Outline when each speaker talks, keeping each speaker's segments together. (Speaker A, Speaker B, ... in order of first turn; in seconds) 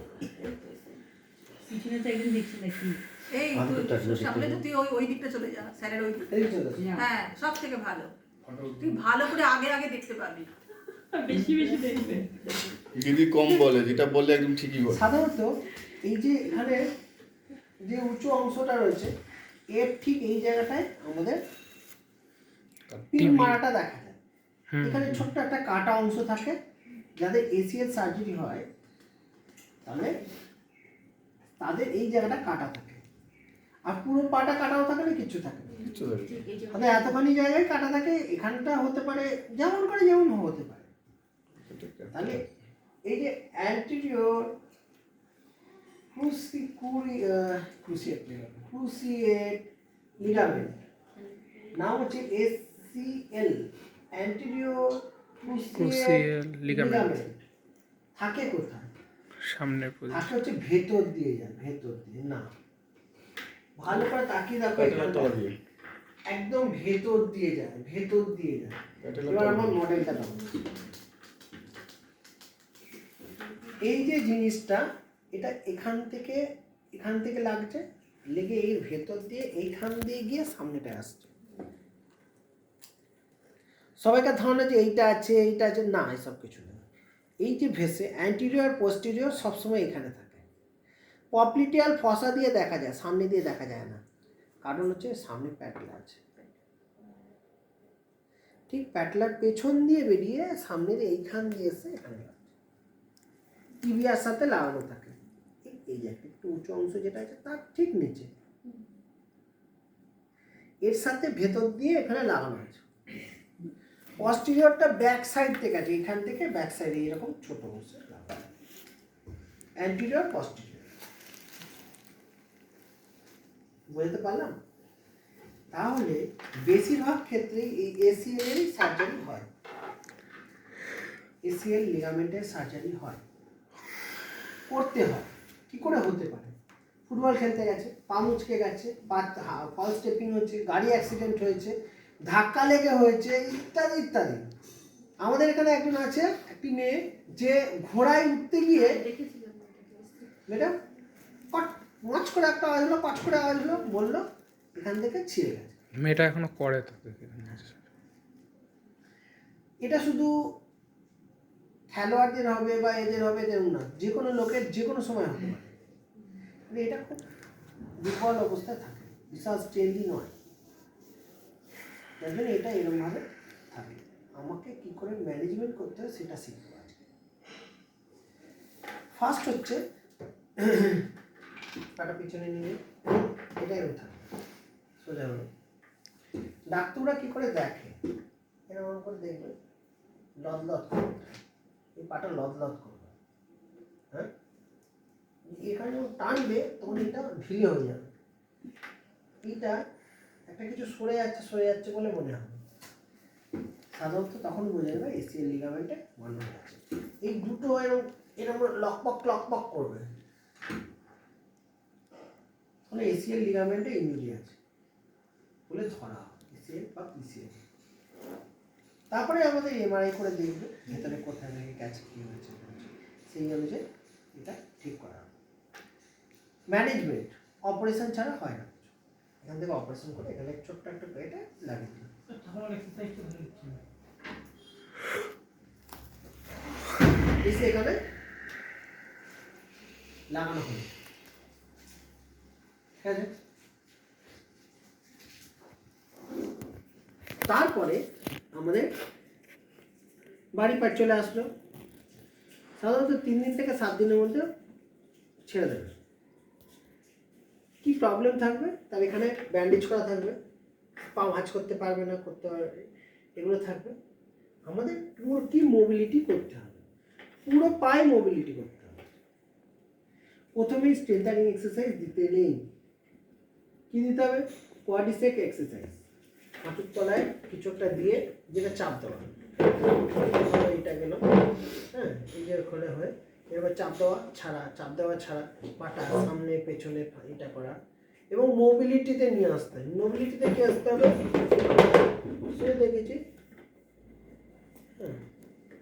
Speaker A: 0.4-1.0, 1.7-3.0, 6.8-7.1, 11.1-12.7, 36.3-37.2, 148.7-150.3
Speaker B: 3.3-6.3, 6.9-8.1, 8.7-10.5
Speaker C: 3.5-4.6, 8.4-9.0, 12.9-15.1, 35.8-36.5, 41.6-42.4, 64.7-65.5, 69.0-69.9
Speaker D: 6.3-6.9, 11.4-12.1, 14.9-16.8, 17.8-19.1, 19.7-21.4, 23.1-24.2, 24.8-26.6, 27.2-28.6, 29.9-30.2, 31.6-33.0, 33.9-35.9, 36.7-40.9, 42.1-42.4, 43.1-44.6, 46.1-50.8, 51.7-57.4, 58.2-58.9, 60.1-62.5, 63.8-65.4, 66.3-70.6, 73.8-74.8, 75.3-76.4, 77.0-81.3, 84.0-86.8, 87.4-90.4, 91.3-94.0, 94.6-96.5, 98.7-102.5, 103.8-108.3, 110.8-112.8, 114.2-118.5, 119.8-120.8, 123.9-124.6, 125.7-129.5, 131.4-133.2, 134.7-136.6, 137.1-144.4, 145.2-149.1, 150.5-150.8, 151.5-154.2, 154.8-155.8, 159.8-160.4, 161.9-165.8, 166.7-167.2, 168.0-170.3, 172.2-177.1, 179.1-179.8, 180.6-181.1, 182.0-184.3, 185.0-185.5, 186.7-188.0, 188.7-189.5, 190.4-191.4, 192.0-193.1, 195.6-198.1, 199.4-199.8, 200.5-202.6, 203.9-210.1, 212.9-214.6, 215.7-217.6, 219.1-223.8, 224.3-225.3, 226.7-232.1, 237.4-238.0, 240.3-240.9, 243.0-243.3, 247.5-248.0, 248.5-248.9, 250.6-251.5, 252.8-254.4, 255.5-256.0, 257.8-260.4, 261.1-263.9, 264.7-266.8, 267.4-269.1, 270.6-272.6, 273.9-275.9, 276.6-281.3, 281.9-287.8, 288.3-293.2
Speaker E: 23.1-23.6, 24.7-25.3, 55.7-57.2, 59.4-60.3, 156.0-157.8, 232.8-233.7